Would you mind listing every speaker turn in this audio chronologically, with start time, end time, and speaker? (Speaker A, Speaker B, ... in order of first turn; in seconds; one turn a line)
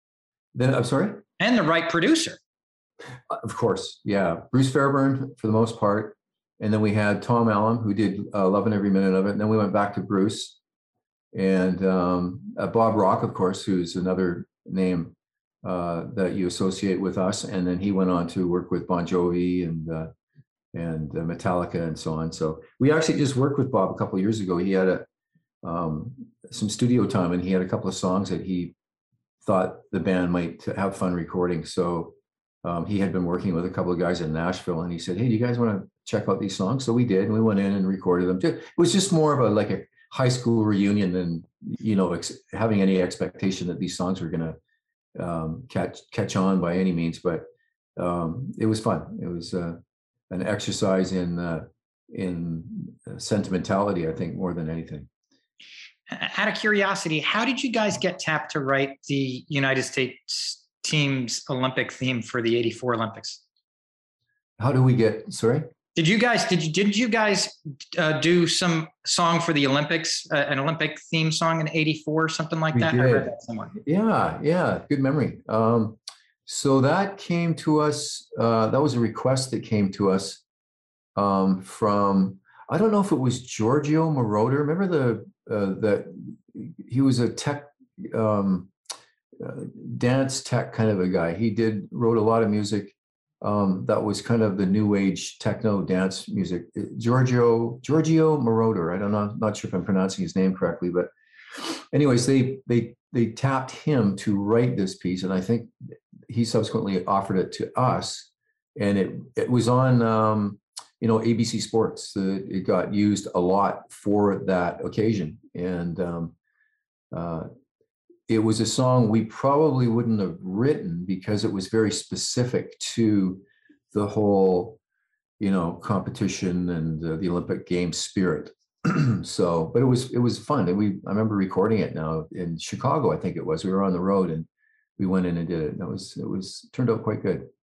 Speaker A: 0.5-1.2
Speaker B: 1.4-2.4
Speaker A: 3.3-10.6
Speaker A: 11.3-20.1
Speaker A: 20.7-25.1
Speaker A: 25.6-28.7
Speaker A: 29.4-44.6
Speaker A: 45.1-47.4
Speaker A: 48.0-49.8
Speaker A: 50.3-55.1
Speaker B: 56.1-63.4
Speaker A: 64.6-65.7
Speaker B: 65.9-73.7
Speaker A: 72.7-80.4
Speaker A: 81.2-88.7
Speaker A: 89.3-105.7
Speaker A: 106.3-116.3
Speaker A: 117.1-117.5
Speaker A: 118.3-124.8
Speaker A: 125.4-137.5